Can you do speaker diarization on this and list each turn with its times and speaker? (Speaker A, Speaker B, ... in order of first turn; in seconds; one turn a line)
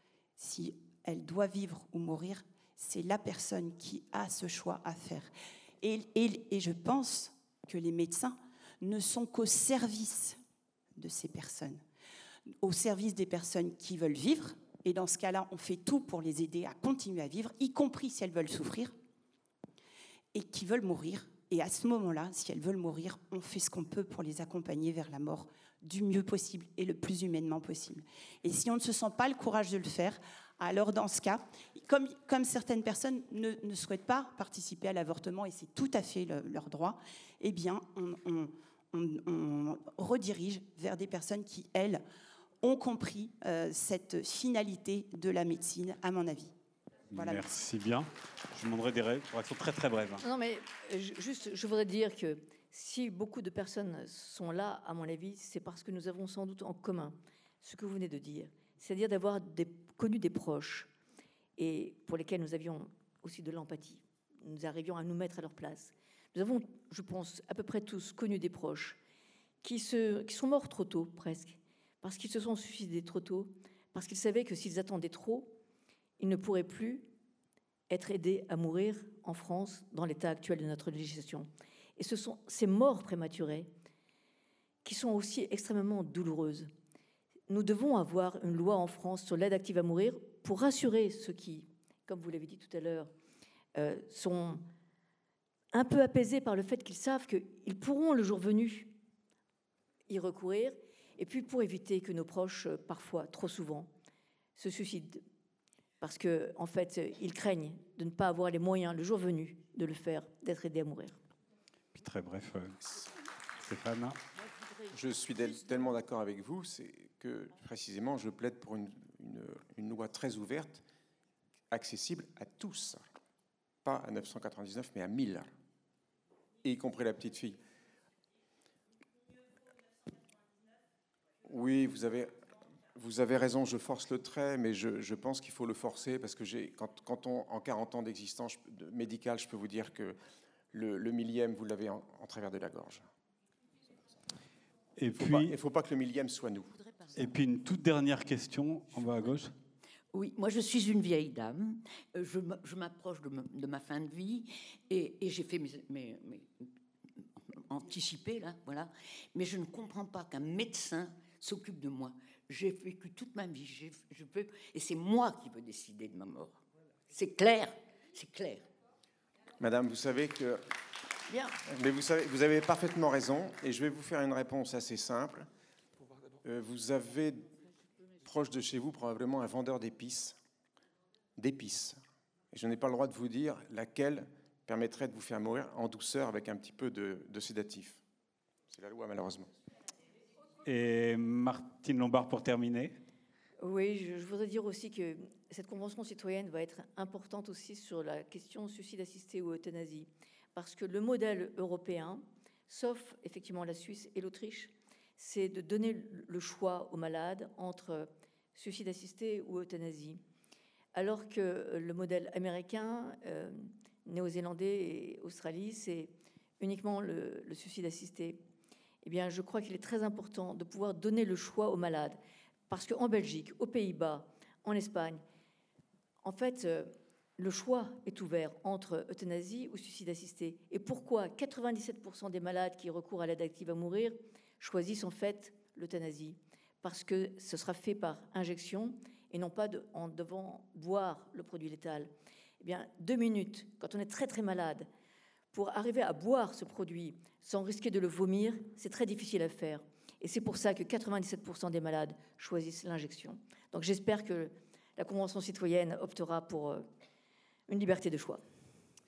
Speaker A: 0.4-10.4
Speaker A: 10.9-11.8
Speaker A: 12.6-18.9
Speaker A: 20.3-42.0
Speaker A: 42.6-46.5
Speaker B: 47.1-50.2
Speaker A: 47.1-47.5
Speaker C: 50.2-60.9
Speaker C: 61.6-69.0
Speaker C: 69.6-75.6
Speaker C: 76.2-77.1
Speaker C: 77.9-83.7
Speaker C: 84.8-86.7
Speaker C: 87.5-93.1
Speaker C: 93.7-94.6
Speaker C: 95.7-99.0
Speaker C: 100.1-103.9
Speaker C: 104.6-105.2
Speaker C: 106.0-111.2
Speaker B: 111.9-113.1
Speaker B: 113.6-114.2
Speaker D: 114.9-120.8
Speaker D: 121.7-123.0
Speaker D: 123.8-125.5
Speaker D: 126.6-127.6
Speaker D: 131.4-140.2
Speaker D: 140.7-143.1
Speaker B: 145.0-145.6
Speaker D: 145.2-146.7
Speaker E: 146.9-147.1
Speaker B: 147.1-149.5
Speaker E: 150.1-156.7
Speaker E: 157.5-168.7
Speaker D: 169.6-170.6
Speaker C: 171.3-171.6
Speaker D: 171.6-175.5
Speaker D: 176.4-177.6
Speaker D: 178.2-180.4
Speaker D: 181.4-182.0
Speaker D: 182.5-188.0
Speaker D: 188.7-189.5
Speaker B: 190.6-192.9
Speaker C: 193.6-210.2
Speaker C: 210.9-218.4
Speaker C: 219.0-225.2
Speaker C: 226.2-244.9
Speaker C: 245.5-256.8
Speaker C: 257.7-258.4